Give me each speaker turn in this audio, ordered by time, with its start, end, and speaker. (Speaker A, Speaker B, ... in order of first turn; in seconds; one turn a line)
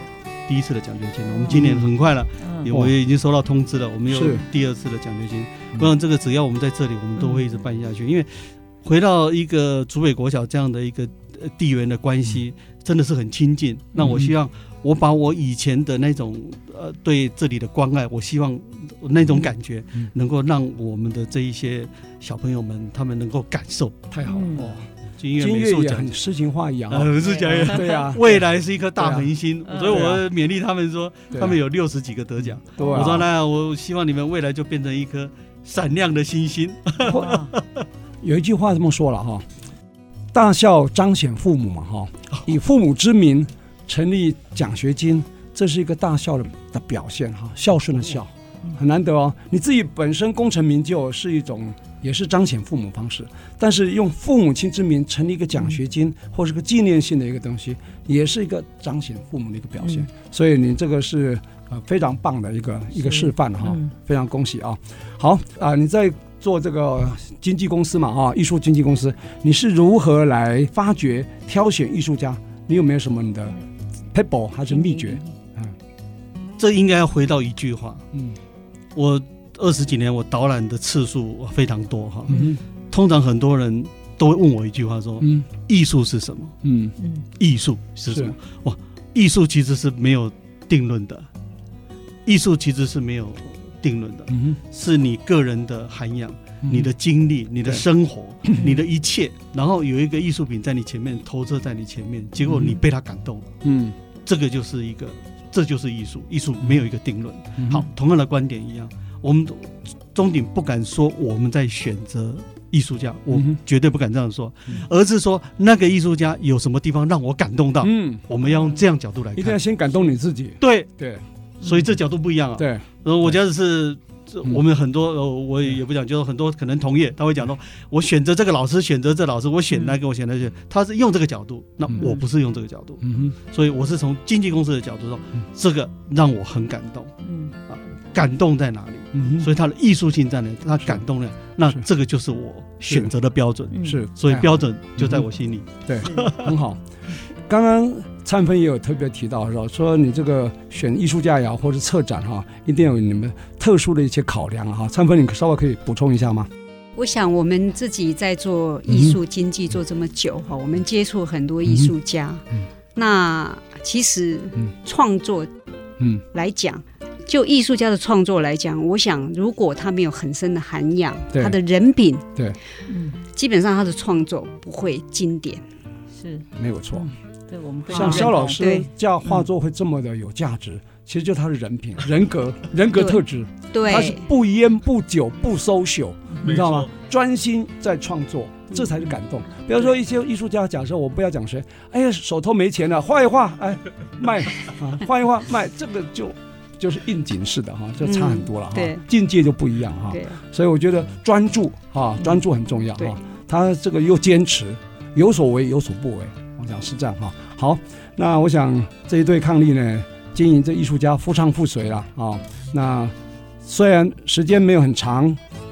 Speaker A: 0.5-24.1
Speaker B: 1.4-1.6
Speaker C: 1.5-1.9
Speaker B: 2.4-2.7
Speaker C: 4.1-4.4
Speaker C: 14.0-14.3
Speaker C: 24.1-29.3
Speaker B: 24.3-24.7
Speaker A: 24.6-26.2
Speaker A: 26.9-37.8
Speaker B: 27.2-28.0
Speaker B: 29.7-30.1
Speaker C: 29.9-30.2
Speaker C: 31.3-31.6
Speaker C: 32.7-33.3
Speaker B: 32.8-33.0
Speaker B: 37.0-37.5
Speaker C: 38.2-39.5
Speaker C: 40.3-73.6
Speaker B: 59.8-60.1
Speaker B: 63.0-63.9
Speaker C: 74.1-75.8
Speaker B: 74.7-75.3
Speaker A: 76.6-78.0
Speaker A: 79.0-82.4
Speaker C: 82.3-82.6
Speaker A: 82.9-86.6
Speaker C: 85.2-85.5
Speaker C: 86.6-87.0
Speaker B: 87.0-87.2
Speaker A: 87.4-91.3
Speaker C: 88.1-88.3
Speaker A: 92.3-103.5
Speaker C: 94.3-94.6
Speaker C: 96.7-96.9
Speaker C: 103.6-104.0
Speaker A: 104.2-119.6
Speaker C: 107.6-107.9
Speaker C: 113.3-113.6
Speaker C: 117.8-118.2
Speaker B: 118.4-118.8
Speaker C: 119.4-121.2
Speaker A: 120.6-120.9
Speaker A: 121.6-137.1
Speaker C: 122.6-123.3
Speaker B: 129.7-130.0
Speaker C: 133.0-133.4
Speaker B: 137.2-137.5
Speaker A: 137.7-146.4
Speaker C: 139.1-139.5
Speaker C: 142.9-143.1
Speaker B: 143.7-144.1
Speaker C: 143.8-145.3
Speaker C: 145.9-146.8
Speaker C: 147.5-156.5
Speaker D: 157.0-165.5
Speaker C: 158.9-159.2
Speaker C: 161.7-161.9
Speaker D: 166.3-172.3
Speaker C: 171.3-171.6
Speaker B: 172.9-173.2
Speaker D: 173.3-175.6
Speaker B: 176.1-178.6
Speaker C: 176.6-177.1
Speaker C: 177.9-215.4
Speaker D: 177.9-178.9
Speaker D: 182.9-184.3
Speaker B: 186.3-186.6
Speaker A: 186.4-186.9
Speaker D: 198.0-199.0
Speaker D: 200.1-200.4